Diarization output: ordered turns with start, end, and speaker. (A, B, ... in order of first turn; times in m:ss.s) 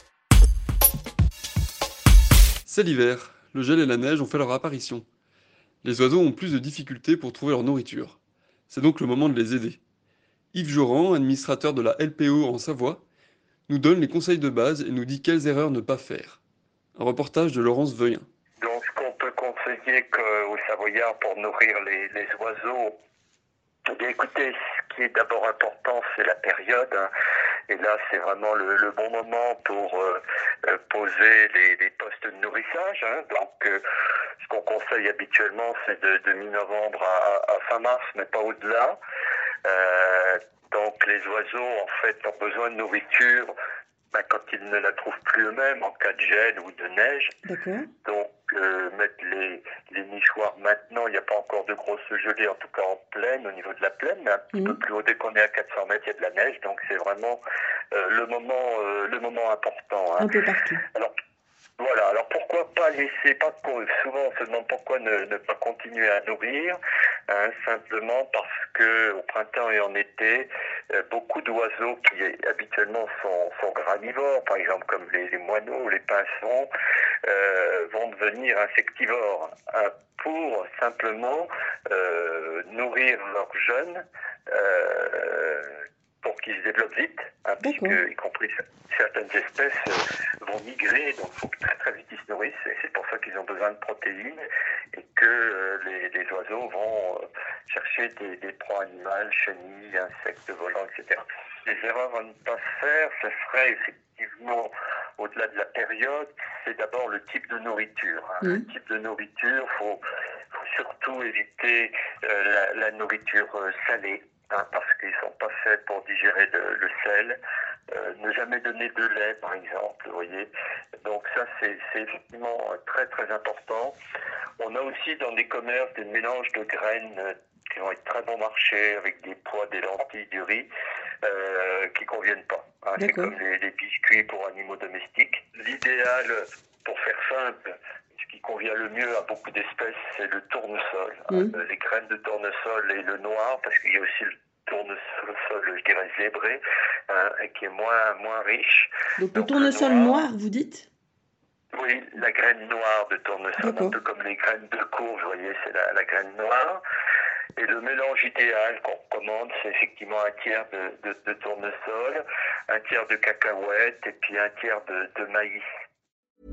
0:02.6-0:05.0 A
0:05.8-0:08.2 A
0:08.7-0:09.8 A
0:10.5-0:13.0 A
0:13.7-0:16.4 A
0:17.0-0:18.3 A
0:18.6-0:22.9 B
0:23.9-0:27.1 B
0:27.7-0:33.8 B
0:34.4-0:39.0 B
0:39.6-0:43.5 B
0:44.1-0:47.3 B
0:47.4-0:47.9 C
0:48.0-0:57.4 B
0:54.5-0:54.8 C
0:57.9-1:00.3 B
1:00.2-1:00.8 C
1:01.8-1:06.8 B
1:07.3-1:16.7 B
1:17.2-1:34.4 B
1:27.6-1:28.0 C
1:34.9-1:50.0 B
1:50.5-1:57.4 B
1:57.9-2:00.5 B
2:01.0-2:04.0 B
2:04.6-2:10.7 B
2:11.2-2:17.6 B
2:13.0-2:13.3 C
2:18.2-2:30.2 B
2:21.3-2:21.5 C
2:29.2-2:30.9 C
2:31.7-2:36.8 B
2:33.6-2:34.0 C
2:37.6-2:45.6 B